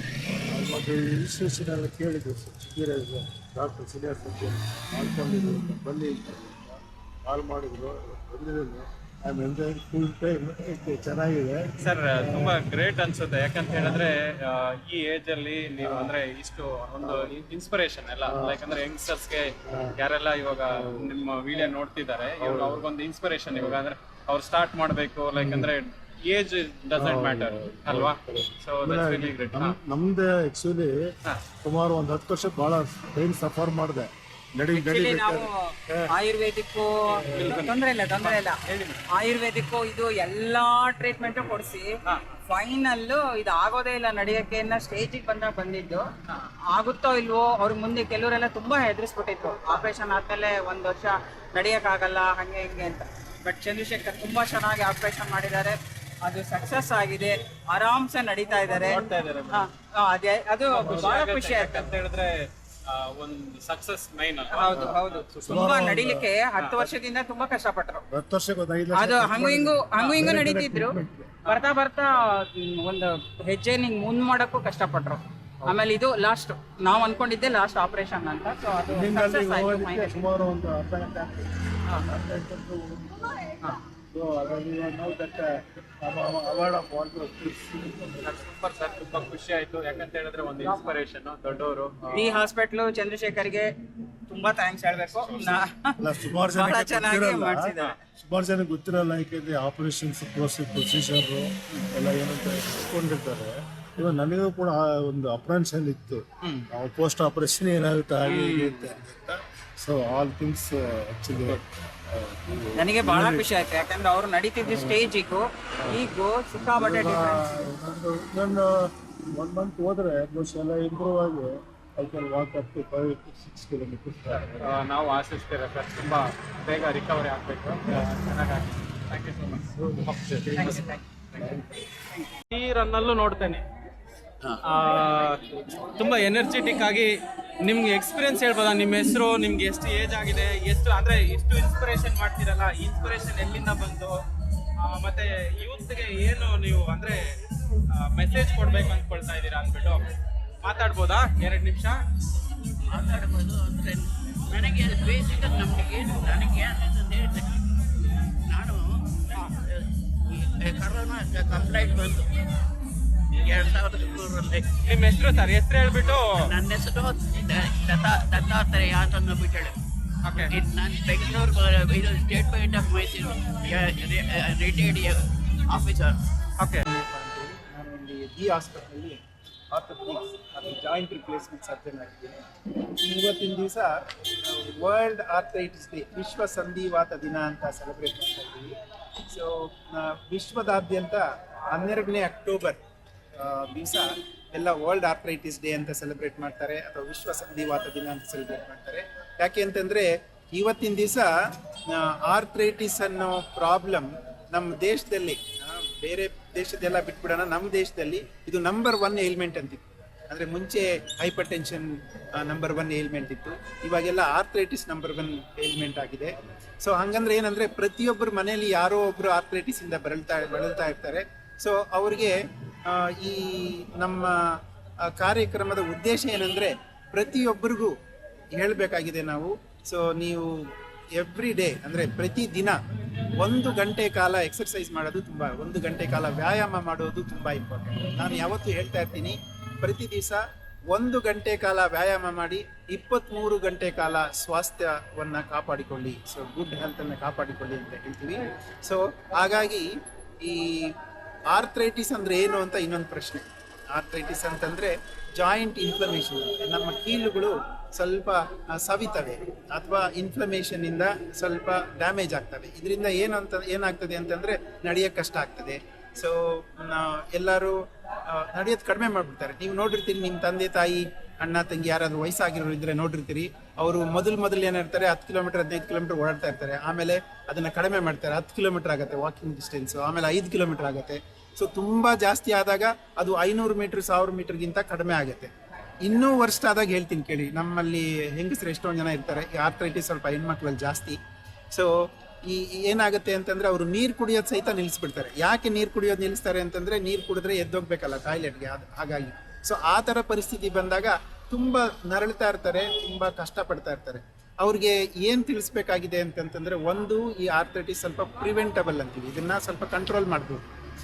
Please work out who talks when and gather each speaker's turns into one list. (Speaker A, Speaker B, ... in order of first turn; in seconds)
Speaker A: 0.5-12.6, 13.7-14.1, 15.8-16.1, 17.0-17.3, 18.2-18.6, 19.7-19.9, 20.7-21.1, 22.4-22.9, 23.5-23.8, 25.4-25.7, 26.9-36.1, 37.3-37.6, 60.8-61.2, 64.7-66.3, 68.1-71.5, 78.9-83.2, 84.1-88.2, 96.0-113.5, 114.6-115.0, 116.7-124.7, 129.8-131.7
Speaker B: 11.8-29.8, 58.8-59.5, 60.8-65.5, 88.2-92.1, 124.6-130.8, 132.5-133.6, 134.7-137.1, 137.7-144.1, 144.9-147.2, 148.0-150.0, 150.6-151.9, 164.9-166.3
Speaker C: 34.8-38.6, 39.1-41.9, 42.5-46.1, 46.7-61.9, 64.5-68.0, 68.9-80.2, 92.1-93.7, 94.3-96.0, 96.5-98.0, 112.8-117.6, 130.6-131.0
Speaker D: 152.9-157.5, 158.5-158.9, 160.3-162.3, 163.4-164.7, 166.3-169.8, 170.4-176.2
Speaker E: 176.8-188.8, 189.3-192.8, 193.4-201.3, 201.9-227.9, 228.5-232.8, 233.4-251.0, 251.5-285.5, 286.0-291.2, 291.7-310.7